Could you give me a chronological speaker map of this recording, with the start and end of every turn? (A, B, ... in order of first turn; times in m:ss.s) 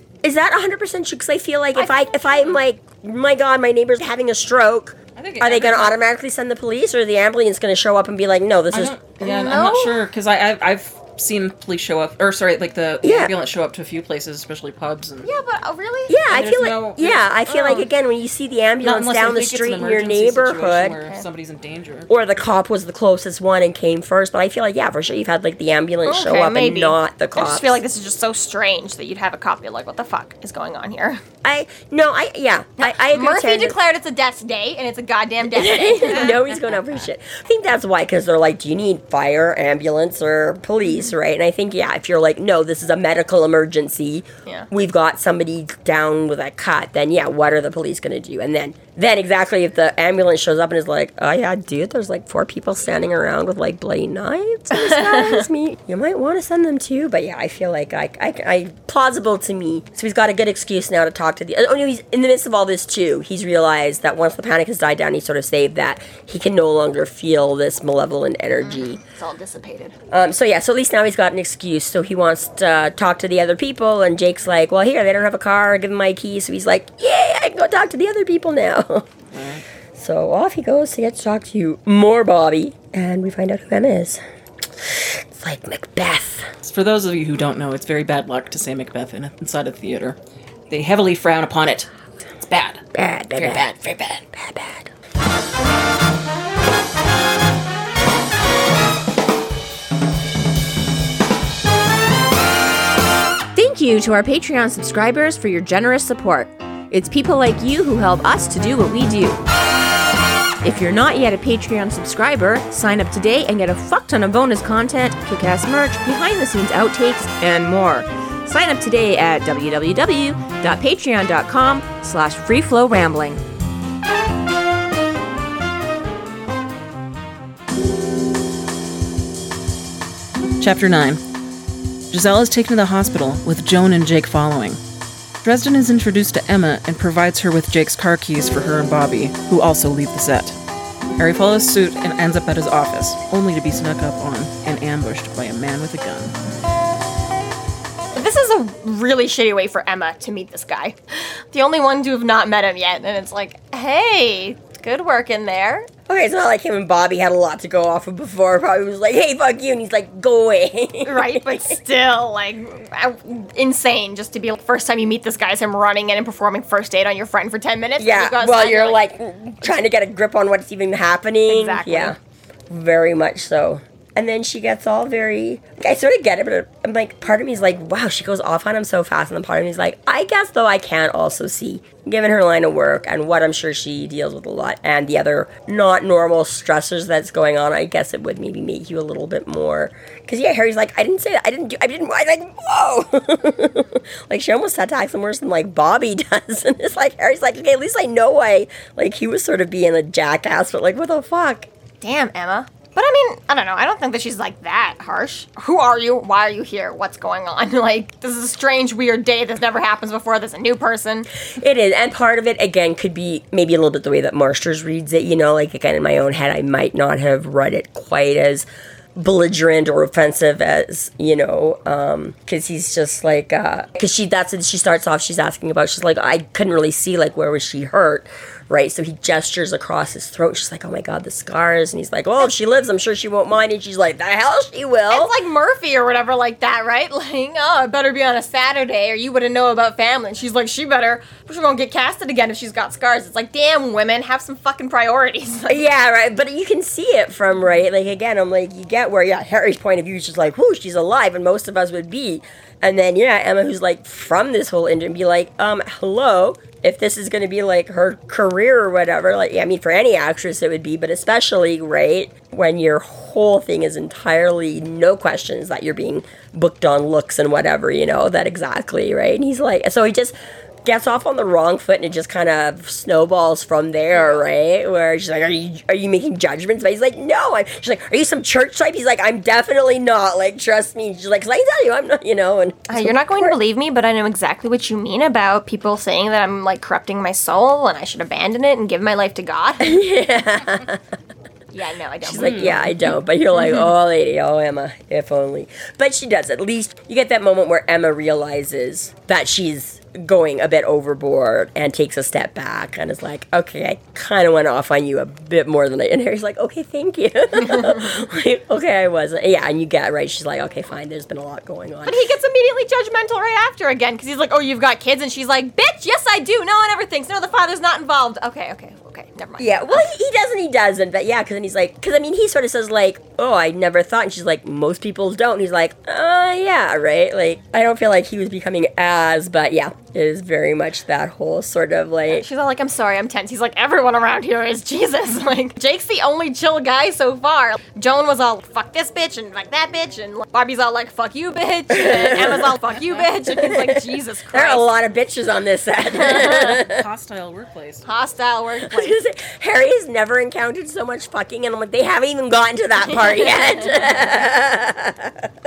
0:00.2-0:09.0 A
0:01.7-0:02.6 B
0:05.2-0:06.0 C
0:08.7-0:15.3 C
0:09.2-0:09.9 B
0:13.0-0:13.3 A
0:15.2-0:16.2 B
0:16.1-0:21.0 A
0:16.3-0:17.8 C
0:18.8-0:22.1 C
0:22.1-0:27.8 A
0:26.0-0:31.2 B
0:31.4-0:33.7 A
0:32.8-0:36.4 B
0:35.5-1:09.0 A
0:54.8-0:55.4 B
1:08.6-1:09.9 B
1:10.1-1:19.1 A
1:19.3-1:19.6 C
1:20.0-1:24.2 A
1:24.8-1:26.5 A
1:26.6-1:30.2 C
1:30.7-1:31.9 C
1:32.4-1:34.2 C
1:32.9-1:34.9 A
1:43.5-1:49.4 D
1:50.6-2:03.4 D
2:10.6-2:11.2 C
2:12.1-2:14.8 C
2:15.4-2:20.6 C
2:21.2-2:26.3 C
2:28.1-2:35.9 B
2:36.1-2:41.8 A
2:41.0-2:49.0 B
2:48.0-2:52.2 A
2:51.5-2:52.1 B
2:52.7-3:21.7 A
3:22.0-3:31.3 B
3:31.5-3:55.4 A
3:55.1-4:05.8 B
4:05.7-4:43.6 A
4:34.1-4:34.4 B
4:42.9-4:49.9 B
4:49.8-4:51.0 A
4:51.7-4:52.8 B
4:52.2-5:12.2 A
4:52.3-4:52.9 C
5:12.0-5:20.1 B
5:19.6-5:32.4 A
5:32.3-5:44.9 B
5:41.9-5:47.0 A
5:46.2-5:46.7 B
5:46.4-5:48.0 C
5:48.0-5:49.2 B
5:48.8-5:55.5 A
5:53.1-5:54.0 B